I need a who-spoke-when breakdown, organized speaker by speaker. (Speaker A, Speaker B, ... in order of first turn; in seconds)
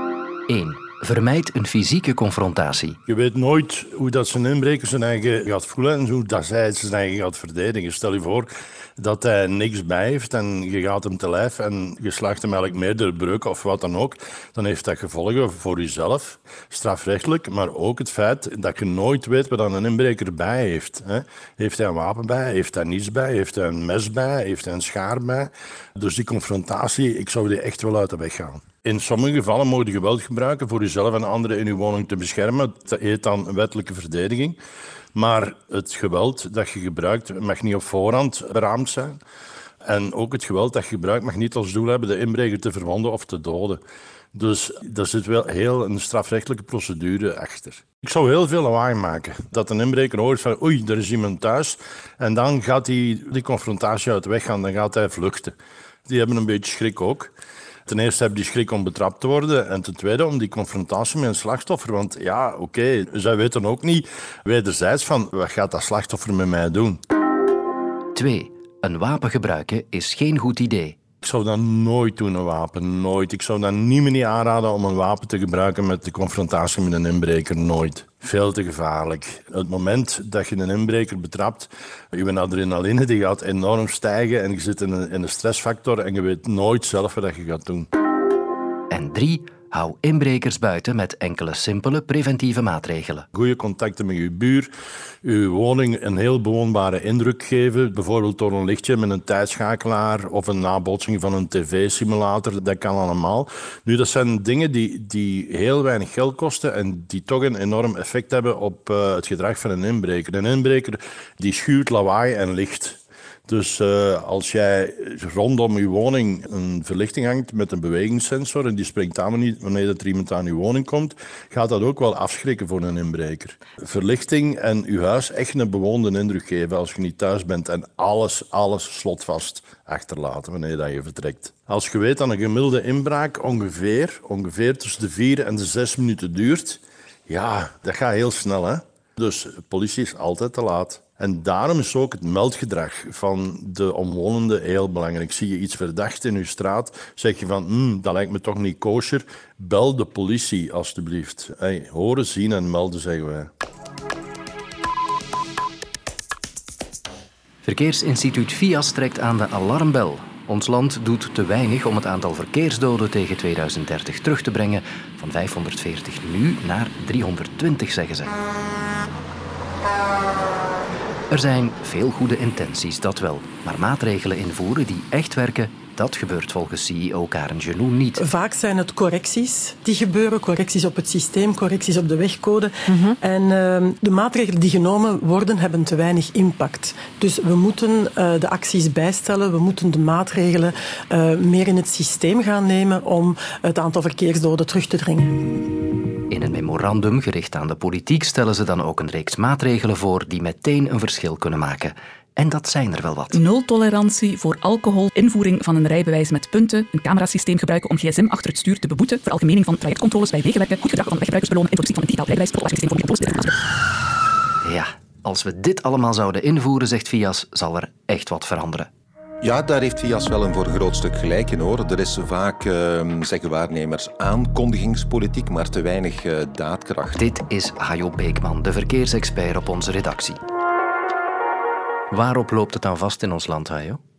Speaker A: 0.5-3.0, 68.1-71.0, 88.9-93.2, 157.6-168.3, 171.3-178.2, 196.3-203.4, 214.6-218.9, 227.1-230.4, 232.1-234.0
Speaker B: 3.1-34.6, 35.1-39.2, 39.9-43.8, 44.3-55.5, 56.1-57.3, 57.9-67.0, 71.2-87.9, 93.3-94.7, 95.2-153.5
Speaker C: 178.2-195.3
Speaker D: 203.3-213.5
Speaker E: 219.4-227.2